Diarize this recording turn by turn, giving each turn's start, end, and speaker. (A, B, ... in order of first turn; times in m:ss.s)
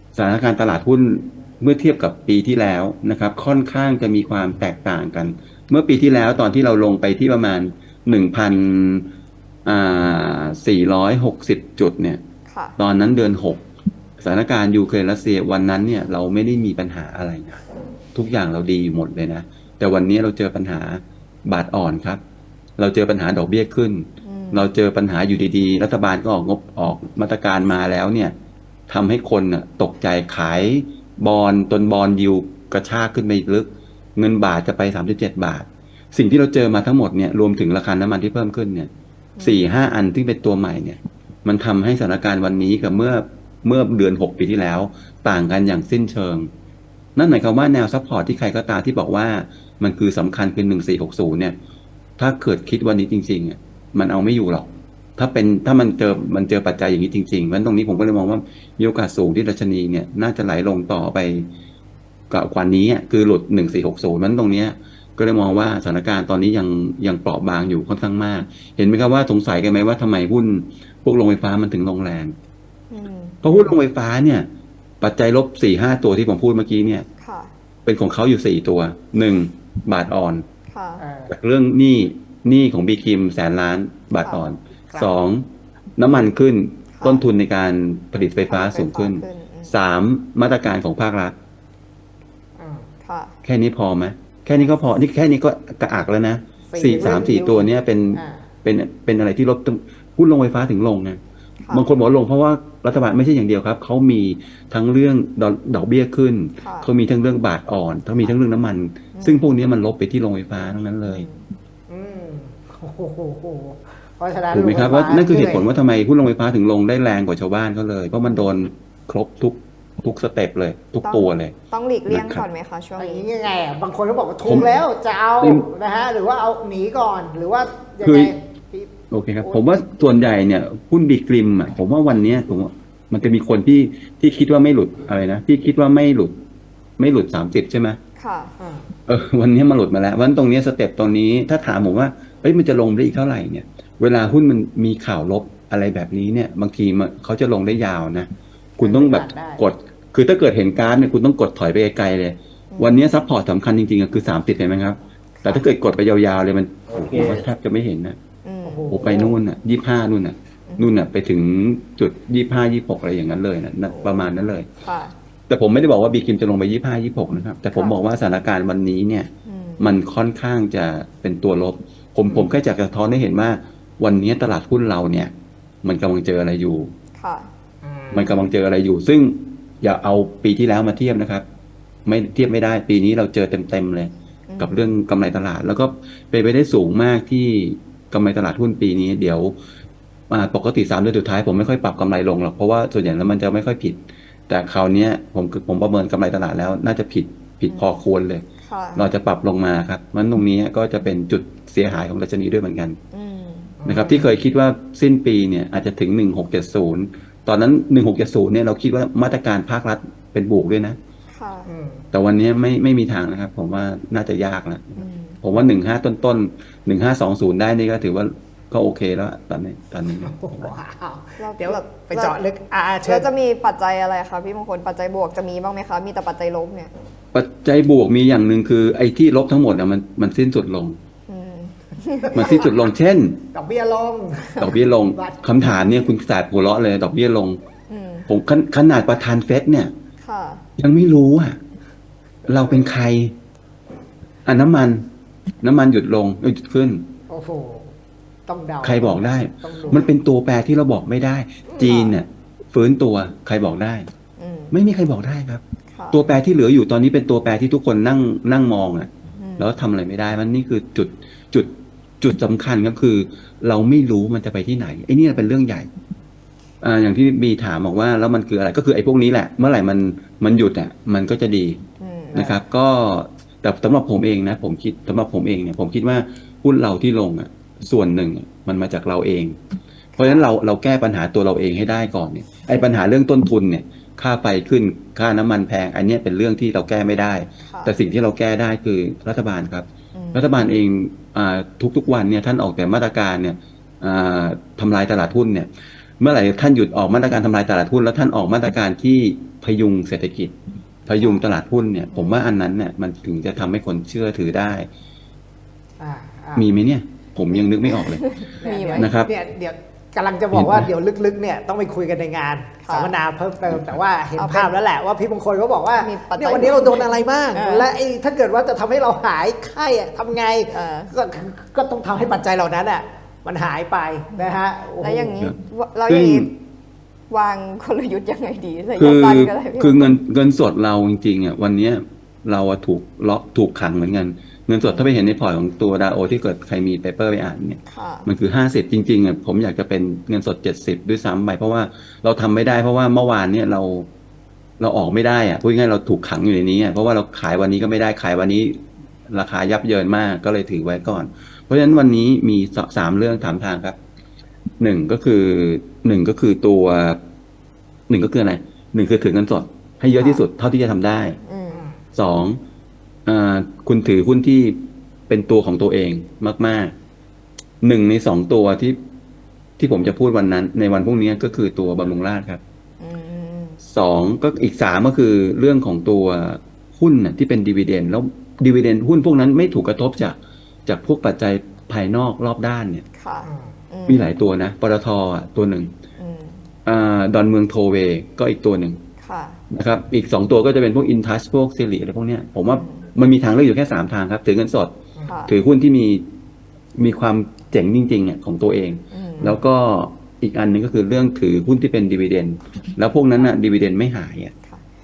0:00.1-0:09.1 A
0:09.6-0:12.2 A
0:12.5-0:12.8 B
0:12.8-0:13.6 A
0:14.2-0:17.6 A
0:18.1-0:22.2 A
0:22.8-0:28.3 A
0:24.2-0:24.7 B
0:28.9-0:46.5 A
0:39.4-0:39.6 B
0:47.2-0:51.6 A
0:52.2-1:01.5 A
1:02.3-1:12.3 A
1:12.9-1:13.4 B
1:13.4-1:14.5 A
1:15.0-1:17.0 A
1:17.2-1:17.5 B
1:17.8-1:20.4 A
1:20.7-1:21.0 B
1:21.0-1:21.3 C
1:21.3-1:31.3 A
1:26.9-1:27.2 B
1:28.5-1:29.8 B
1:32.6-1:32.9 C
1:33.0-1:33.3 B
1:33.4-1:51.3 A
1:36.7-1:38.4 C
1:41.6-1:41.9 B
1:46.6-1:46.9 B
1:49.1-1:49.4 B
1:51.0-1:51.4 B
1:51.9-1:55.6 C
1:54.5-2:01.6 A
2:01.0-2:03.2 B
2:02.1-2:02.4 A
2:03.0-2:09.6 C
2:04.4-2:04.8 A
2:05.4-2:05.7 A
2:08.0-2:08.3 A
2:09.1-2:16.4 A
2:17.0-2:18.0 A
2:18.2-2:18.5 B
2:18.6-2:18.9 C
2:19.1-2:38.2 A
2:28.8-2:29.6 C
2:32.7-2:33.1 B
2:35.4-2:35.7 B
2:38.4-2:38.9 B
2:38.6-2:39.4 C
2:38.9-2:44.7 A
2:40.7-2:41.0 B
2:43.9-2:44.3 B
2:44.8-2:45.1 B
2:45.5-2:55.3 A
2:47.7-2:48.0 C
2:49.4-2:49.9 B
2:55.8-2:56.9 A
2:57.2-2:57.5 B
2:57.8-2:58.4 C
2:58.1-3:01.4 A
3:02.0-3:09.6 A
3:04.5-3:04.9 B
3:10.3-3:18.4 A
3:17.7-3:18.0 B
3:18.6-3:19.1 B
3:19.0-3:23.0 A
3:23.1-3:23.8 B
3:23.8-3:24.3 C
3:23.8-3:31.0 A
3:31.3-3:31.7 B
3:31.7-3:32.0 C
3:32.1-3:40.7 A
3:35.0-3:35.4 B
3:40.2-3:43.3 C
3:41.4-3:42.4 B
3:43.0-3:46.9 B
3:47.3-3:51.0 A
3:51.3-3:52.5 B
3:52.3-3:52.7 C
3:52.3-3:53.4 A
3:53.5-3:55.4 C
3:54.6-3:57.6 A
3:57.9-3:58.3 B
3:58.3-3:59.9 A
4:00.2-4:00.6 B
4:00.8-4:01.6 A
4:02.5-4:03.3 A
4:02.5-4:02.9 C
4:04.4-4:05.0 A
4:05.6-4:07.0 A
4:07.3-4:07.9 C
4:08.4-4:10.1 C
4:08.8-4:14.1 A
4:11.7-4:12.2 C
4:14.4-4:14.7 B
4:14.7-4:25.9 A
4:15.9-4:16.2 B
4:19.3-4:19.7 B
4:26.8-4:31.8 A
4:32.0-4:32.5 B
4:32.3-4:32.6 C
4:32.3-4:39.6 A
4:40.2-4:40.5 B
4:40.2-5:00.5 A
4:47.6-4:47.9 B
4:50.1-4:50.5 B
5:01.0-5:04.9 A
5:01.2-5:01.4 B
5:02.1-5:02.4 B
5:06.0-5:06.7 C
5:06.6-5:08.2 A
5:08.0-5:09.1 B
5:08.6-5:25.4 C
5:09.0-5:09.3 A
5:10.5-5:10.9 A
5:12.8-5:13.2 B
5:13.7-5:14.0 A
5:14.4-5:14.8 B
5:16.0-5:17.9 B
5:20.7-5:21.1 B
5:24.3-5:26.5 B
5:26.1-5:26.5 A
5:27.3-5:30.2 B
5:29.0-5:44.1 A
5:34.8-5:35.1 B
5:37.9-5:38.3 B
5:44.8-5:54.0 A
5:54.8-5:57.2 A
5:58.1-6:01.4 A
6:00.2-6:00.4 B
6:01.4-6:01.9 B
6:01.7-6:02.0 C
6:02.1-6:02.6 A
6:03.2-6:06.9 A
6:07.8-6:09.0 A
6:09.8-6:12.6 A
6:13.0-6:13.8 B
6:13.8-6:23.0 A
6:23.2-6:24.3 B
6:23.4-6:23.7 C
6:24.1-6:25.9 A
6:26.2-6:26.6 B
6:26.8-6:29.0 A
6:29.2-6:29.6 B
6:29.7-6:34.9 A
6:32.7-6:33.1 B
6:35.2-6:35.5 B
6:35.5-6:36.3 A
6:37.0-6:44.5 A
6:39.1-6:39.6 B